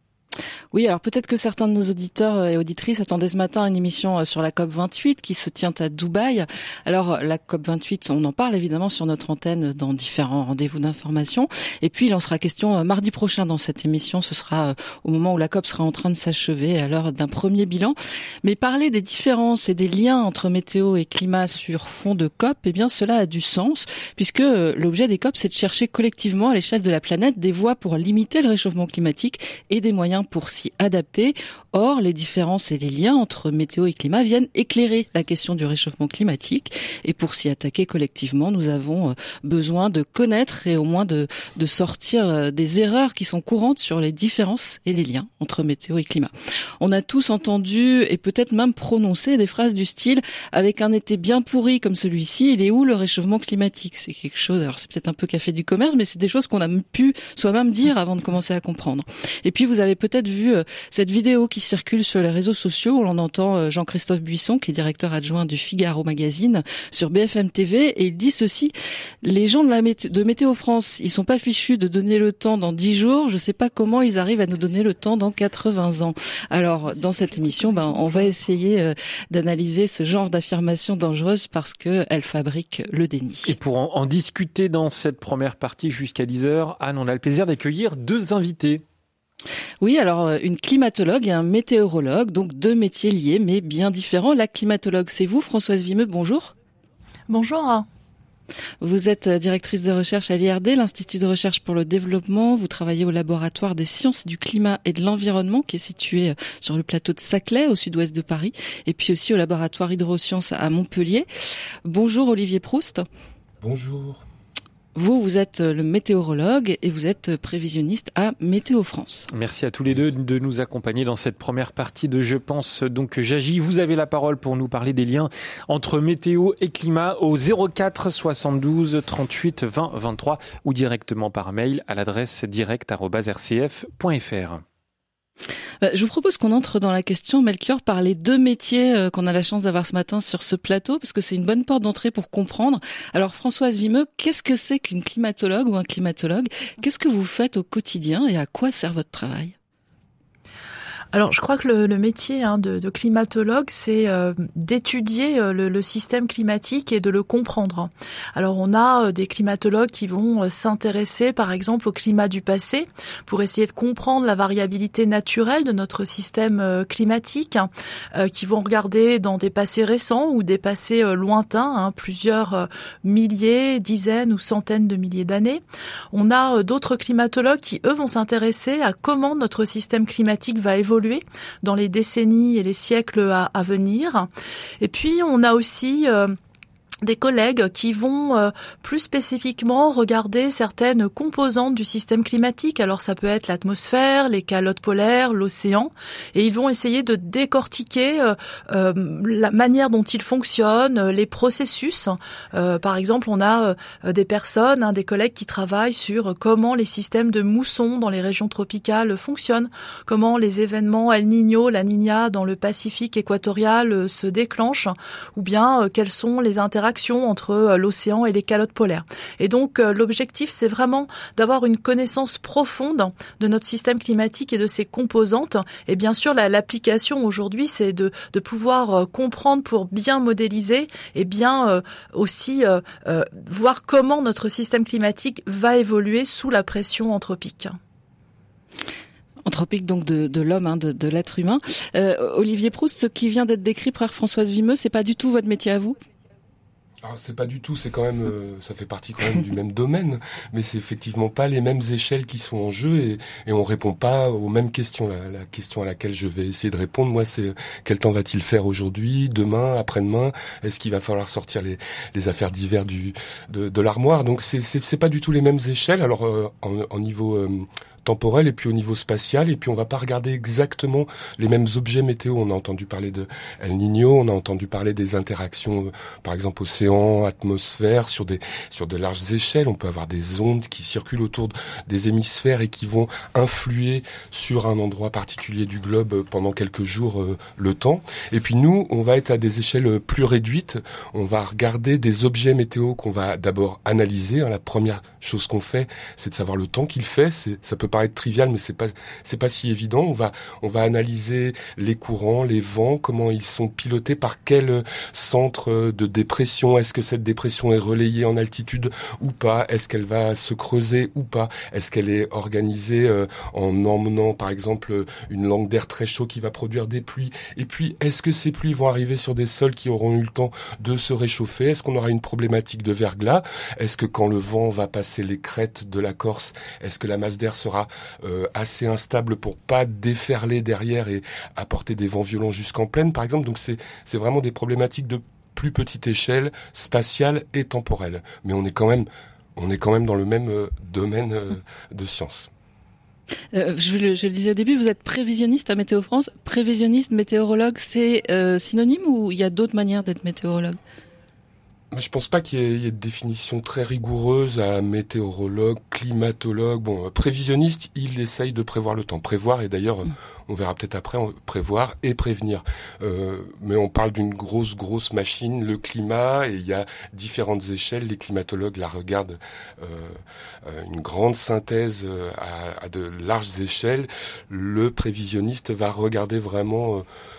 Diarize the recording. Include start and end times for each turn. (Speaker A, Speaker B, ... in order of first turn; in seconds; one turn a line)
Speaker A: 0.7-83.5
Speaker B: 83.5-88.8
Speaker A: 89.8-96.5
Speaker C: 97.3-97.9
Speaker A: 98.8-111.3
Speaker A: 111.8-113.1
Speaker D: 113.6-114.2
Speaker A: 115.0-119.3
Speaker B: 119.3-134.6
Speaker A: 135.8-149.5
Speaker C: 151.1-184.3
Speaker C: 184.8-186.4
Speaker C: 187.0-237.8
Speaker A: 239.5-246.0
Speaker D: 247.0-342.5
Speaker A: 343.5-350.8
Speaker D: 351.9-377.1